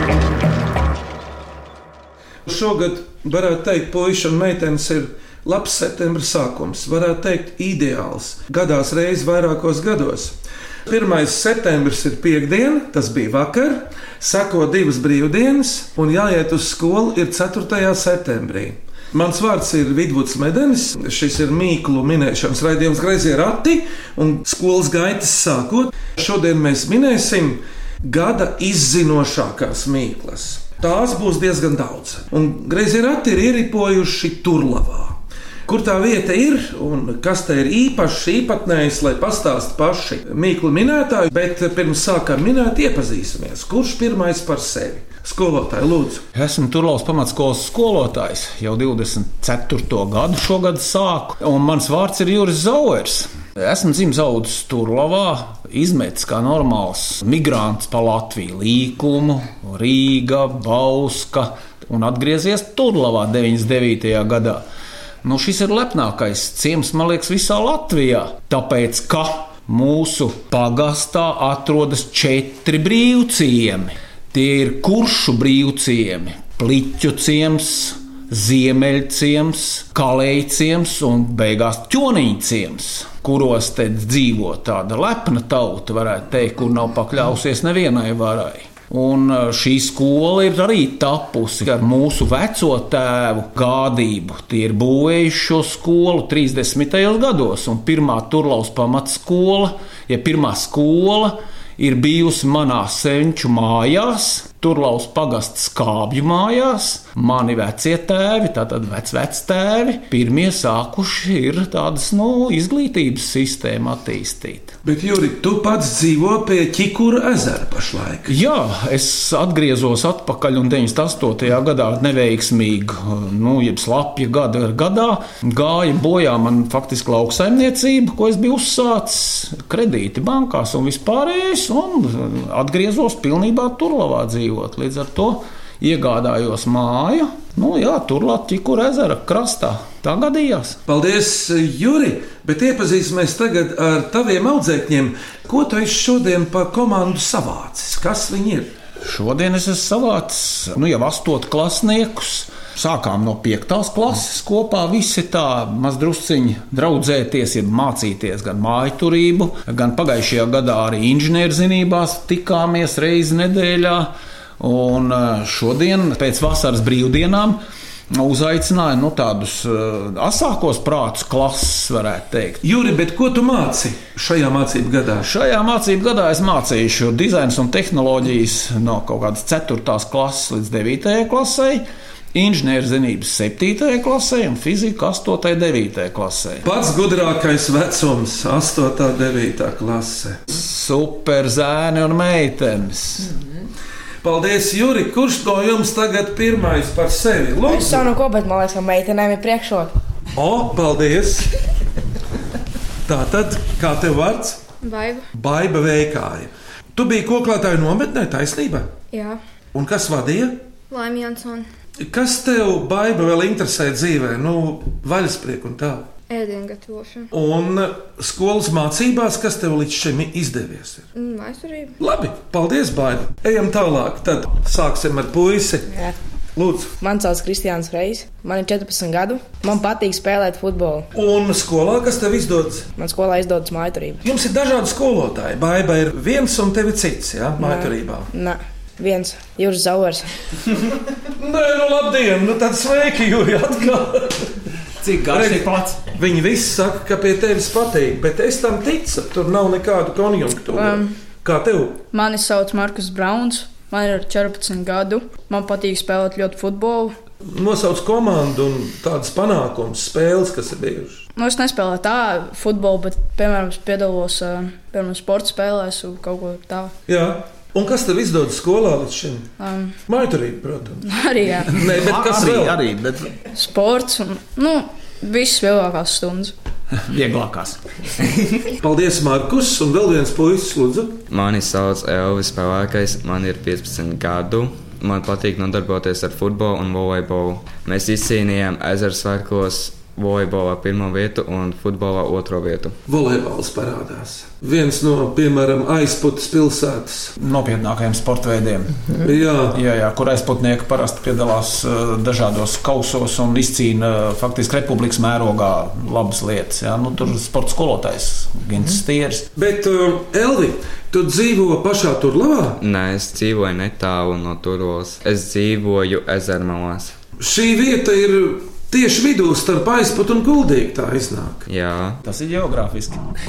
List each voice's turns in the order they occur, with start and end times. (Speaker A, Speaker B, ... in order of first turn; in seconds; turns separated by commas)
Speaker A: 2.5-10.3, Speaker A: 10.9-46.2, Speaker B: 46.3-64.7, Speaker B: 65.2-114.8, Speaker A: 114.8-118.3, Speaker B: 118.3-140.8, Speaker A: 140.9-148.8, Speaker B: 149.0-167.6, Speaker B: 168.1-172.6, Speaker A: 172.6-175.3, Speaker B: 175.2-186.7, Speaker A: 186.7-190.4, Speaker B: 190.5-193.3, Speaker A: 194.2-198.1, Speaker C: 197.7-199.9, Speaker A: 200.3-201.5, Speaker A: 203.1-204.6, Speaker D: 204.8-205.3, Speaker A: 205.3-208.9, Speaker D: 209.1-209.4, Speaker A: 209.7-210.6, Speaker D: 210.9-211.7, Speaker A: 212.0-216.1, Speaker D: 216.3-217.3, Speaker A: 217.3-221.1, Speaker D: 221.1-222.0, Speaker A: 222.0-225.9, Speaker A: 226.6-226.9, Speaker C: 227.0-231.1, Speaker A: 231.1-232.9, Speaker C: 233.0-234.2, Speaker A: 234.2-238.3, Speaker C: 237.6-240.3, Speaker A: 241.4-244.6, Speaker B: 245.0-246.1, Speaker A: 245.3-252.0, Speaker E: 250.8-251.1, Speaker E: 252.1-257.1, Speaker A: 257.5-261.2, Speaker E: 261.4-266.9, Speaker A: 267.1-269.5, Speaker E: 269.6-270.0, Speaker A: 270.1-271.1, Speaker E: 271.1-271.7, Speaker A: 271.7-272.8, Speaker B: 271.7-273.3, Speaker E: 273.5-276.5, Speaker B: 277.0-277.8, Speaker A: 278.8-281.2, Speaker F: 281.3-293.0, Speaker A: 293.1-297.3, Speaker B: 297.4-299.0, Speaker A: 299.2-299.8, Speaker B: 299.7-309.5, Speaker A: 309.6-312.8, Speaker F: 312.8-317.1, Speaker A: 317.4-321.7, Speaker F: 321.7-322.2, Speaker B: 322.2-323.2